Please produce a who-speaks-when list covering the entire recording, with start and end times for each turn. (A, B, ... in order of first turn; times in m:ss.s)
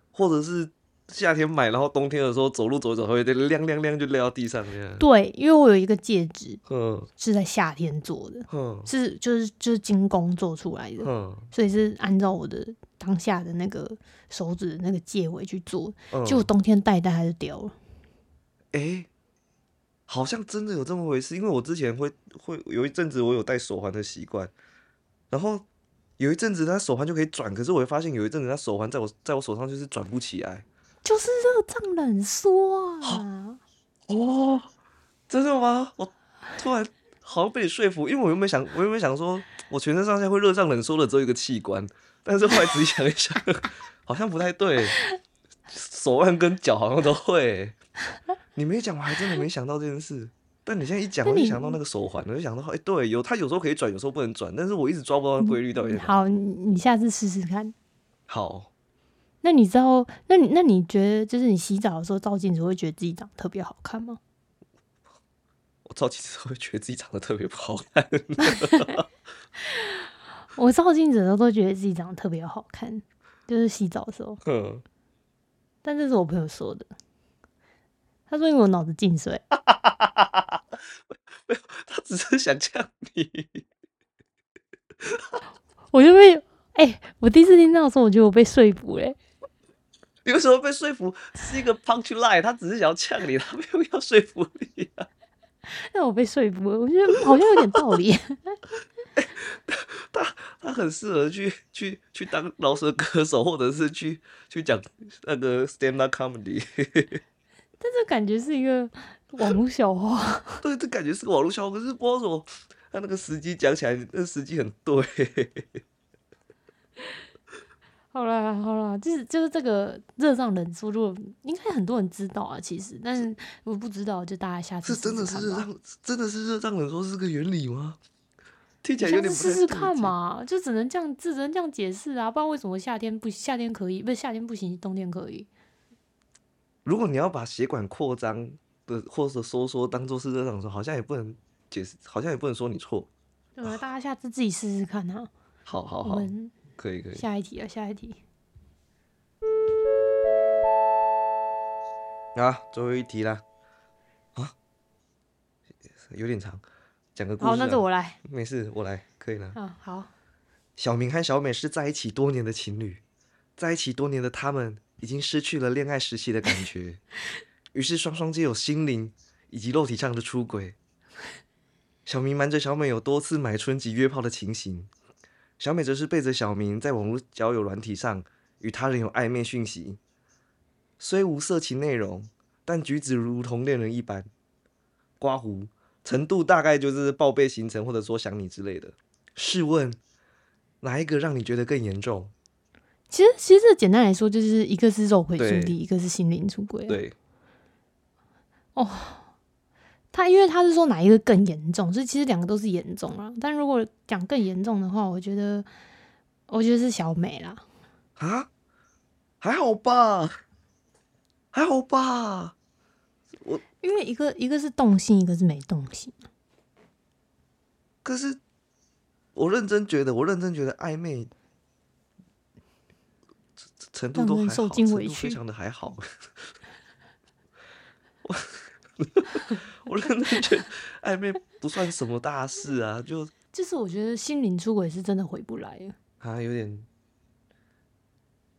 0:00.1-0:05.0 A
0:05.0-0:06.6 B
0:06.7-0:07.1 A
0:07.2-0:17.7 B
0:08.5-0:08.9 A
0:11.0-0:11.5 A
0:16.1-0:16.5 A
0:18.7-0:19.1 A
0:20.1-0:24.5 A
0:25.3-0:25.6 A
0:26.2-0:30.6 A
0:31.0-0:33.6 B
0:34.1-0:34.7 A
0:35.3-0:45.0 A
0:45.7-0:47.8 A
0:48.5-0:56.2 A
0:51.2-0:51.8 B
0:55.4-0:57.7 B
0:58.3-0:58.7 A
0:59.4-1:04.2 B
1:05.8-1:09.0 A
1:08.4-1:09.0 B
1:09.6-1:14.4 B
1:14.4-1:14.8 A
1:15.8-1:16.9 B
1:18.3-1:19.4 B
1:19.6-1:23.6 A
1:25.0-1:25.4 A
1:25.9-1:29.2 B
1:30.2-1:35.1 A
1:35.7-1:38.6 B
1:37.3-1:37.6 A
1:39.1-1:47.2 A
1:47.8-1:50.6 B
1:50.6-1:55.8 A
1:58.1-2:05.7 B
2:04.8-2:08.0 A
2:08.8-2:10.1 A
2:09.0-2:15.5 B
2:16.8-2:23.1 A
2:23.6-2:25.3 B
2:25.6-2:27.2 A
2:26.0-2:26.5 B
2:27.1-2:28.2 B
2:32.3-2:33.4 A
2:36.0-2:36.6 A
2:37.1-2:39.6 A
2:37.4-2:38.2 B
2:39.5-2:40.1 B
2:40.8-2:43.0 A
2:43.6-2:47.0 A
2:47.7-2:50.8 A
2:52.0-2:54.9 A
2:55.6-3:00.0 A
3:01.0-3:04.3 A
3:05.2-3:10.0 A
3:10.8-3:12.3 A
3:13.1-3:17.0 B
3:15.4-3:15.8 A
3:16.9-3:17.1 A
3:18.8-3:19.3 B
3:20.1-3:25.7 B
3:26.5-3:27.6 B
3:28.2-3:28.5 A
3:29.4-3:30.3 A
3:31.5-3:32.5 A
3:33.8-3:36.2 B
3:38.0-3:38.4 A
3:39.3-3:41.3 A
3:43.8-3:46.5 A
3:44.1-3:45.4 B
3:48.2-3:53.3 A
3:53.5-3:55.9 B
3:56.2-3:56.9 A